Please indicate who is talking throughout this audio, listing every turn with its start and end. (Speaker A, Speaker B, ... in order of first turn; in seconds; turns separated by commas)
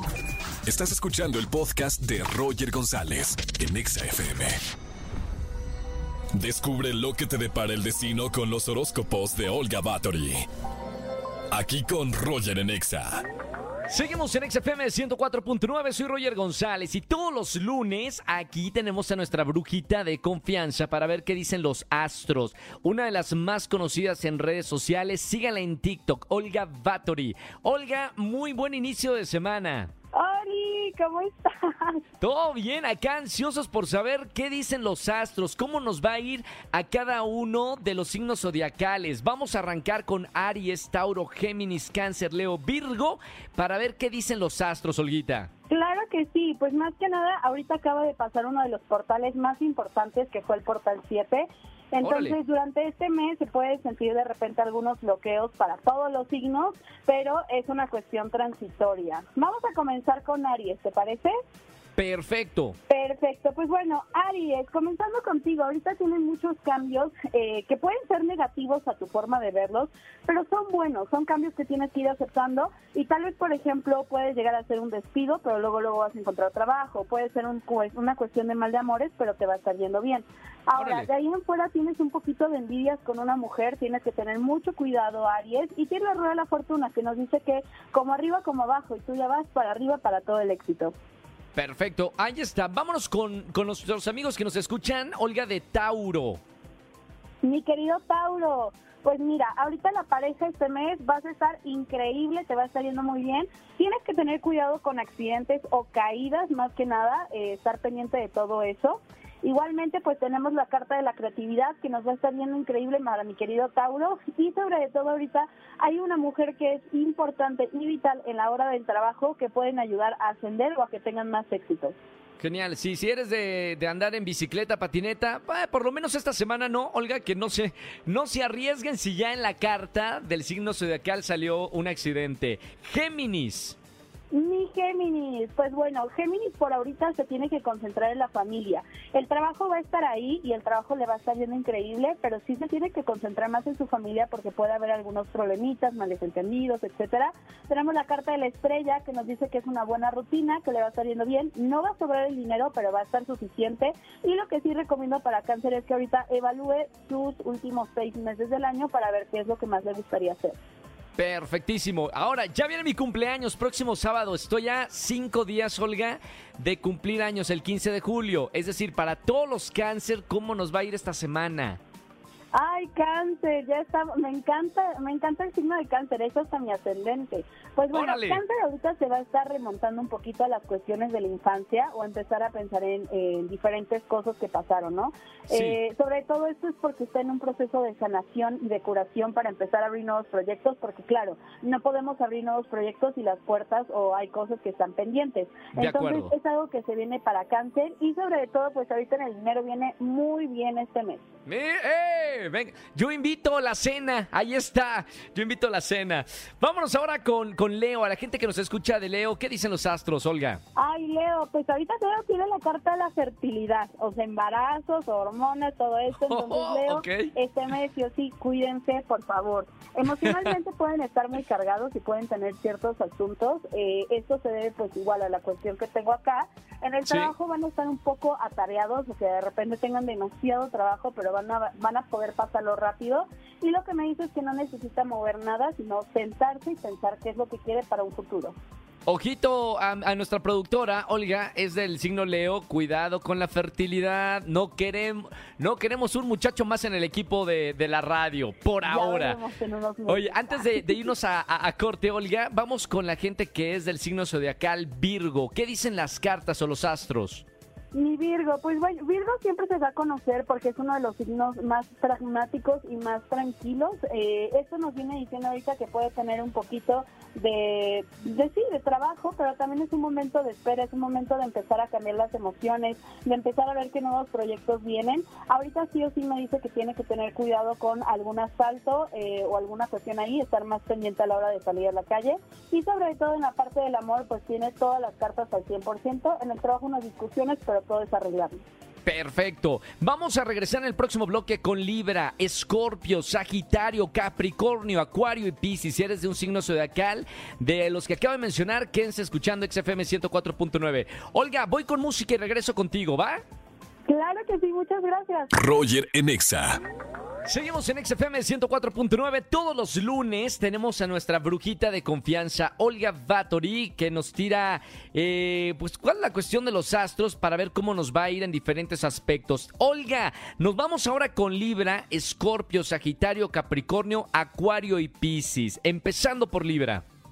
Speaker A: 0.7-4.5, Speaker A: 6.3-10.4, Speaker A: 11.5-13.2, Speaker B: 13.9-29.9, Speaker C: 30.1-32.0, Speaker B: 32.2-45.5, Speaker C: 45.7-61.3, Speaker B: 52.0-52.4, Speaker B: 62.0-62.8, Speaker C: 62.9-90.9, Speaker B: 80.8-81.1, Speaker B: 91.5-96.4, Speaker C: 97.4-122.0, Speaker B: 122.4-133.8, Speaker C: 134.3-160.6, Speaker B: 161.2-171.8, Speaker C: 172.5-201.2, Speaker B: 177.9-178.4, Speaker B: 185.5-185.8, Speaker B: 195.8-196.3, Speaker B: 201.5-210.6, Speaker C: 210.8-238.6, Speaker B: 216.2-217.3, Speaker B: 220.1-220.5, Speaker B: 227.0-227.3, Speaker B: 239.1-249.4, Speaker C: 248.8-251.1, Speaker B: 250.1-257.4, Speaker C: 257.9-288.6, Speaker B: 289.1-303.4, Speaker C: 304.1-305.5, Speaker A: 305.6-306.8, Speaker B: 307.5-327.0